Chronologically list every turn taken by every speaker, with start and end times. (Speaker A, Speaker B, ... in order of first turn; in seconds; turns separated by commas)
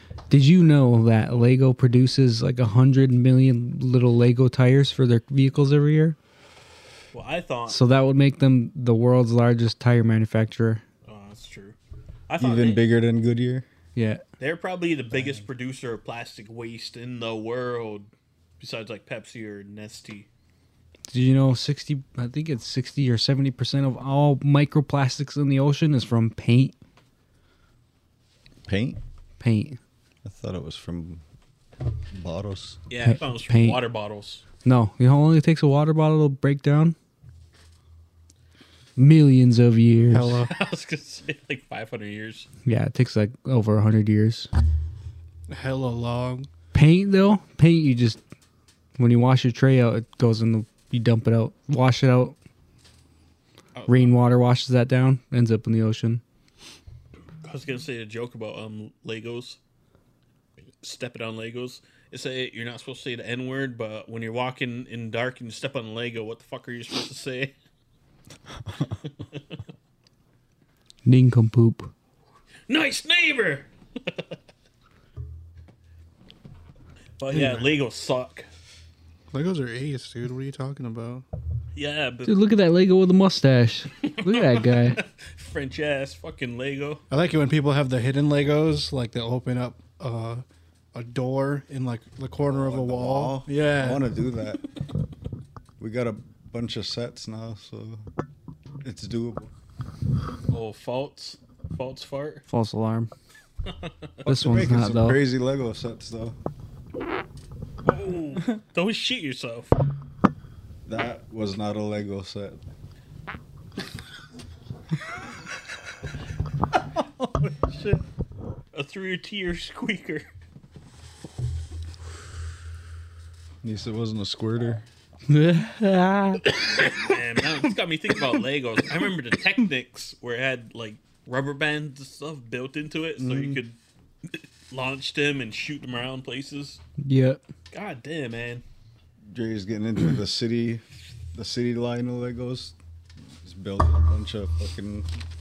Speaker A: 0.3-6.2, Speaker B: 7.1-7.8, Speaker A: 7.7-10.8, Speaker B: 11.0-11.8, Speaker B: 12.3-12.8, Speaker C: 12.4-13.7, Speaker A: 13.9-14.2, Speaker B: 14.4-18.1, Speaker B: 18.6-20.3, Speaker A: 21.1-26.7, Speaker C: 28.7-29.0, Speaker A: 29.4-29.8, Speaker C: 30.2-31.2, Speaker C: 32.1-32.8, Speaker B: 32.9-34.4, Speaker A: 33.0-33.8, Speaker A: 34.6-37.0, Speaker A: 39.0-40.4, Speaker D: 40.1-40.5, Speaker B: 40.5-42.5, Speaker A: 42.6-44.5, Speaker D: 45.5-46.5, Speaker A: 46.7-48.2, Speaker A: 49.0-52.3, Speaker B: 53.8-54.2, Speaker A: 53.9-56.2, Speaker B: 57.4-59.6, Speaker B: 60.8-67.5, Speaker A: 71.0-71.9, Speaker B: 72.7-74.2, Speaker B: 77.2-78.5, Speaker D: 77.3-77.7, Speaker D: 79.3-81.2, Speaker B: 81.7-82.4, Speaker A: 82.2-85.0, Speaker B: 84.0-87.0, Speaker D: 87.1-90.4, Speaker D: 90.9-94.1, Speaker C: 92.5-94.6, Speaker C: 95.8-98.0, Speaker C: 98.8-99.5, Speaker B: 100.5-102.4, Speaker A: 102.5-103.1, Speaker A: 104.2-105.2, Speaker C: 104.2-106.4, Speaker B: 107.8-109.7, Speaker C: 110.8-112.6, Speaker C: 117.0-118.0, Speaker B: 118.7-120.3, Speaker C: 123.6-124.8, Speaker A: 125.3-126.4, Speaker B: 126.5-133.8, Speaker C: 133.2-133.6, Speaker B: 134.3-136.8, Speaker A: 137.0-137.4, Speaker B: 137.7-138.6, Speaker C: 139.3-142.8, Speaker C: 143.4-145.1